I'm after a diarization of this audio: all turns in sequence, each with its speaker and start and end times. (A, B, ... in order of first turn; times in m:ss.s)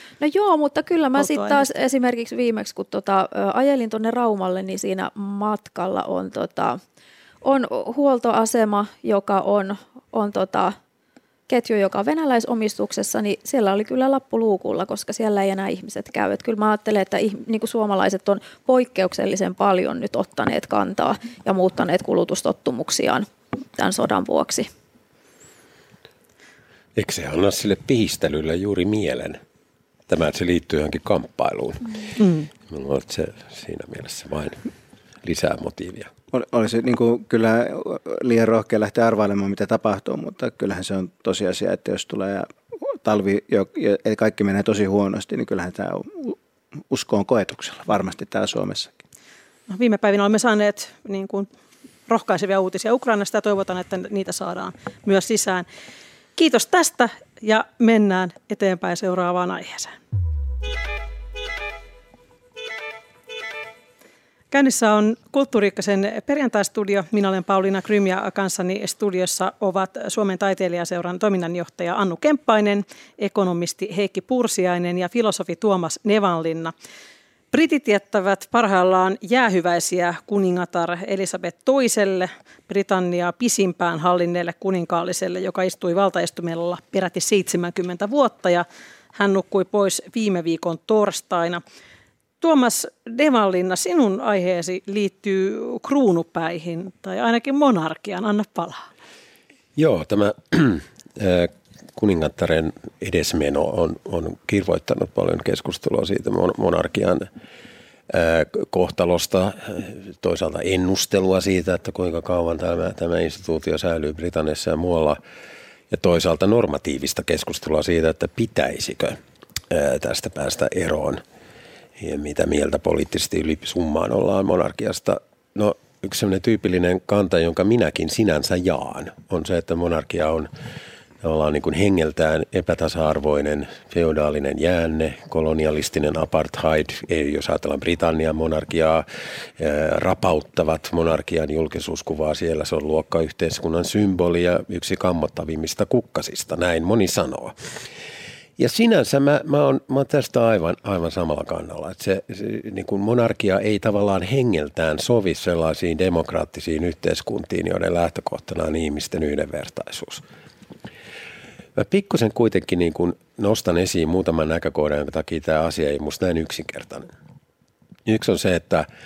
0:00.2-0:06.8 A
0:01.2-0:01.6 B
0:07.4-0:10.8 A
0:11.5-0:24.7 A
0:27.0-0:29.4 C
0:30.1-0:32.1 C
0:32.2-0:32.5 B
0:32.7-0:34.6 C
0:35.2-0:36.1 C
0:36.3-0:46.4 D
0:46.9-0:49.0 D
0:49.7-0:51.5 B
0:52.1-0:55.6 B
0:56.4-1:00.0 B
1:04.5-1:16.7 B
1:17.5-1:31.6 B
1:32.4-1:38.8 B
1:39.8-1:47.3 C
1:48.1-1:55.2 C
1:55.9-1:59.2 C
1:59.7-2:01.2 C
2:02.0-2:10.5 C
2:11.2-2:19.0 C
2:19.6-2:27.5 C
2:28.6-2:40.2 C
2:41.8-2:47.1 C
2:48.0-2:48.8 C